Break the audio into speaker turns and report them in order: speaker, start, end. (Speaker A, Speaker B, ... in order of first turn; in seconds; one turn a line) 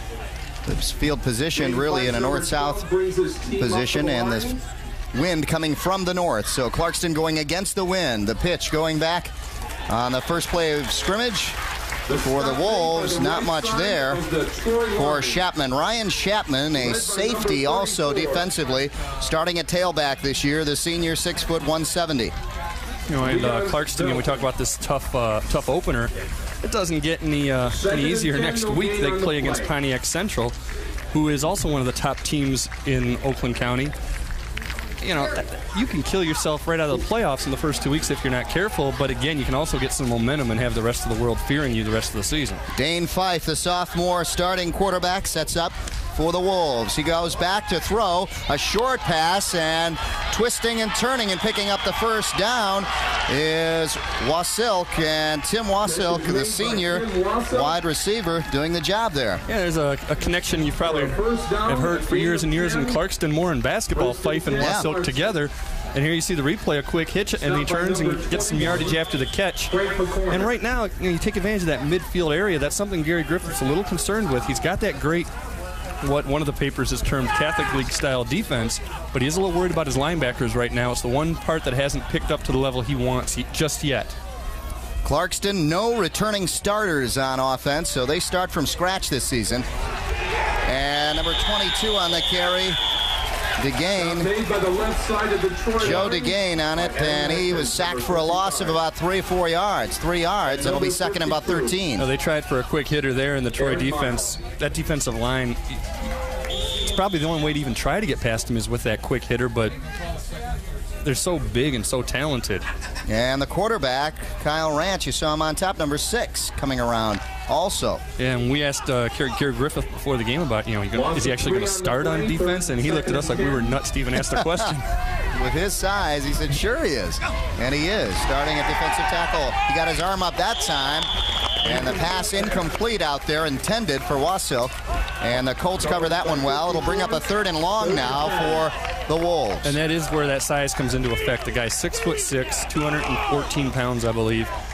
Speaker A: 0.7-2.8
Speaker B: 1.6-4.6
Speaker A: 3.6-4.6
Speaker A: 5.1-9.3
Speaker A: 9.9-11.6
Speaker B: 12.1-15.4
Speaker A: 12.1-14.2
Speaker A: 15.0-22.4
Speaker B: 16.8-18.4
Speaker C: 23.1-30.6
Speaker B: 23.2-24.5
Speaker B: 27.7-29.7
Speaker C: 31.1-33.9
Speaker C: 35.0-42.6
Speaker A: 42.8-59.4
Speaker B: 55.8-57.8
Speaker C: 59.5-69.7
Speaker B: 60.8-63.0
Speaker B: 63.9-65.4
Speaker A: 64.6-64.9
Speaker B: 67.4-69.0
Speaker B: 69.7-70.5
Speaker C: 70.3-75.3
Speaker C: 76.0-84.2
Speaker A: 85.0-89.7
Speaker A: 90.7-92.8
Speaker A: 93.6-94.3
Speaker B: 94.0-98.8
Speaker A: 95.8-102.1
Speaker B: 100.5-101.8
Speaker C: 102.0-105.8
Speaker B: 103.6-104.3
Speaker C: 106.8-109.7
Speaker C: 111.0-112.7
Speaker A: 113.1-118.0
Speaker C: 118.2-124.9
Speaker B: 120.9-123.8
Speaker A: 124.2-124.7
Speaker A: 125.3-139.8
Speaker B: 135.8-138.7
Speaker C: 139.6-144.5